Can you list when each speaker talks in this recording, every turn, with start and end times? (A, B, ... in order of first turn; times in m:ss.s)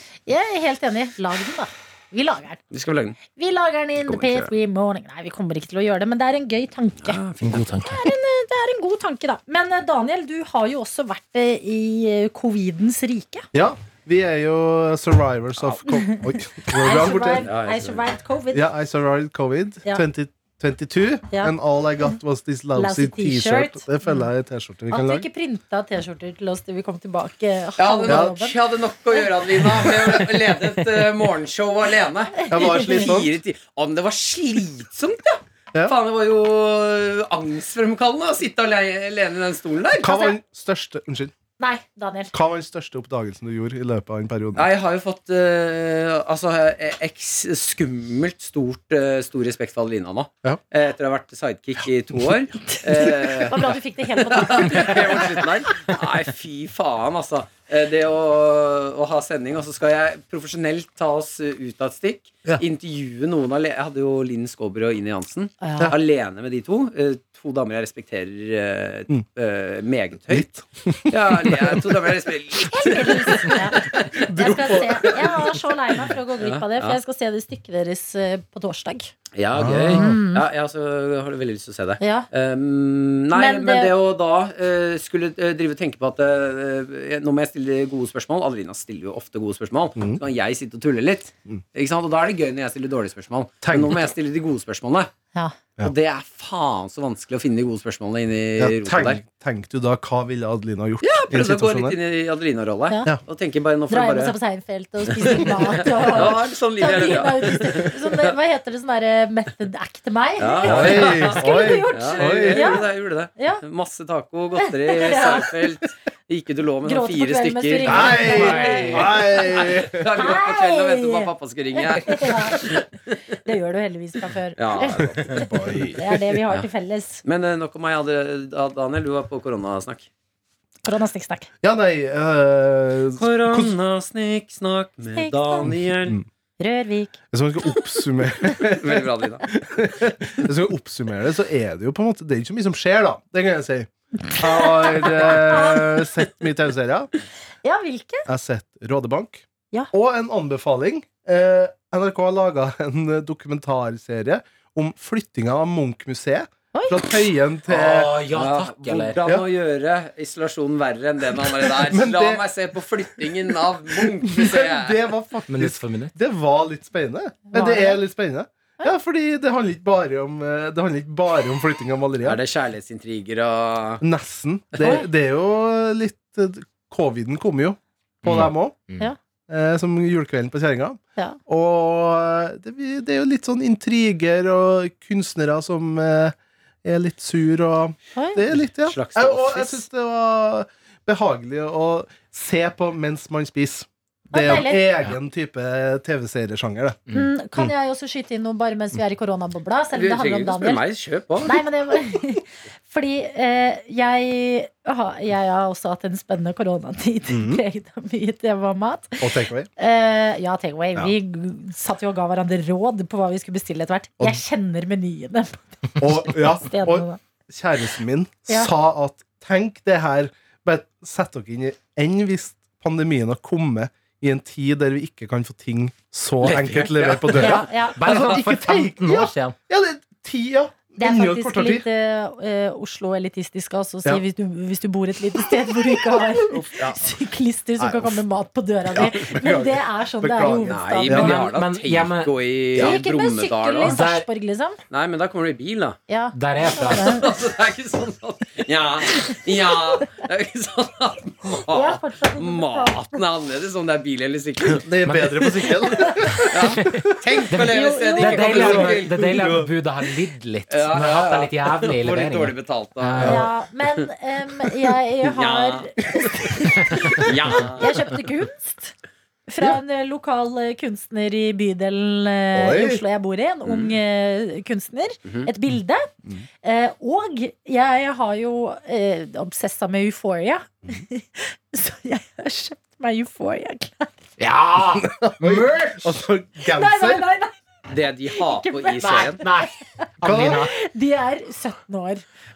0:00.3-0:02.6 A
0:02.7-0:03.2 B
0:03.3-0:07.2 A
0:04.0-0:04.5 B
0:07.0-0:07.7 B
0:07.4-0:08.0 C
0:07.7-0:13.5 A
0:13.5-0:17.5 D
0:15.9-0:18.6 A
0:17.4-0:18.0 B
0:18.5-0:25.3 D
0:22.7-0:24.2 A
0:24.9-0:28.6 A
0:27.8-0:40.2 B
0:28.1-0:28.3 D
0:29.8-0:30.3 A
0:32.4-0:33.1 A
0:32.5-0:33.3 D
0:40.0-0:41.3 D
0:41.6-0:42.3 A
0:42.3-0:44.7 D
0:44.5-1:15.6 B
0:52.7-0:55.5 A
1:05.6-1:05.9 A
1:10.3-1:12.2 D
1:12.7-1:19.1 A
1:14.2-1:15.3 D
1:16.4-1:17.0 B
1:19.3-1:35.1 B
1:19.5-1:20.2 D
1:19.9-1:20.4 A
1:22.0-1:22.3 A
1:23.3-1:23.9 A
1:33.6-1:34.0 D
1:35.8-1:39.2 B
1:38.6-1:42.0 D
1:41.0-1:44.4 B
1:43.9-1:52.8 A
1:45.1-1:48.3 B
1:50.4-2:03.2 B
1:50.6-1:52.8 D
1:53.4-1:53.6 A
1:54.6-1:55.5 A
1:56.8-1:59.3 A
1:57.8-2:00.1 D
1:58.3-1:59.0 C
2:00.1-2:02.8 A
2:03.4-2:07.2 A
2:04.6-2:06.7 B
2:05.0-2:06.0 D
2:07.2-2:10.1 B
2:10.8-2:11.5 A
2:11.6-2:13.8 D
2:13.2-2:16.2 B
2:15.1-2:15.7 A
2:15.6-2:16.2 D
2:16.6-2:17.2 A
2:17.3-2:27.1 D
2:18.7-2:19.4 B
2:24.3-2:26.1 A
2:27.6-2:28.2 A
2:28.3-2:38.1 D
2:36.7-2:37.1 A
2:37.7-2:39.2 C
2:38.3-2:45.0 B
2:41.6-2:42.4 D
2:43.9-2:52.4 D
2:45.5-2:46.1 C
2:47.5-2:48.0 A
2:52.2-2:54.0 B
2:54.0-2:58.8 D
2:54.8-2:55.1 A
2:58.2-2:59.1 C
2:59.5-3:17.0 D
3:08.2-3:08.4 A
3:08.8-3:09.8 B
3:14.3-3:14.8 A
3:17.1-3:20.8 A
3:19.9-3:21.6 B
3:21.4-3:37.2 A
3:27.3-3:27.6 D
3:29.2-3:29.7 D
3:36.0-3:51.8 D
3:46.4-3:47.4 B
3:47.2-3:49.6 C
3:47.3-3:48.0 A
3:51.0-4:01.3 A
3:55.5-3:57.1 D
3:57.8-3:58.2 D
3:58.9-4:01.4 D
4:00.5-4:04.0 B
4:01.1-4:02.3 C
4:02.8-4:04.8 A
4:03.9-4:04.2 C
4:04.9-4:06.0 B
4:06.1-4:07.3 A
4:06.3-4:07.3 C
4:06.9-4:14.9 B
4:11.7-4:13.1 A
4:14.7-4:17.2 D
4:15.0-4:16.1 C
4:16.5-4:19.3 B
4:16.7-4:23.5 C
4:17.7-4:19.0 A
4:18.5-4:19.7 D
4:20.7-4:24.0 B
4:23.2-4:28.9 A
4:25.2-4:26.0 B
4:26.1-4:26.5 D
4:27.1-4:27.9 B
4:29.5-4:36.1 A
4:32.5-4:33.0 D
4:33.6-4:33.9 B
4:36.6-4:44.2 A
4:44.4-4:46.1 C
4:45.0-4:47.2 D
4:46.6-4:47.6 A
4:47.9-4:49.4 B
4:48.3-4:52.2 A
4:49.0-4:50.7 C
4:50.2-4:50.6 D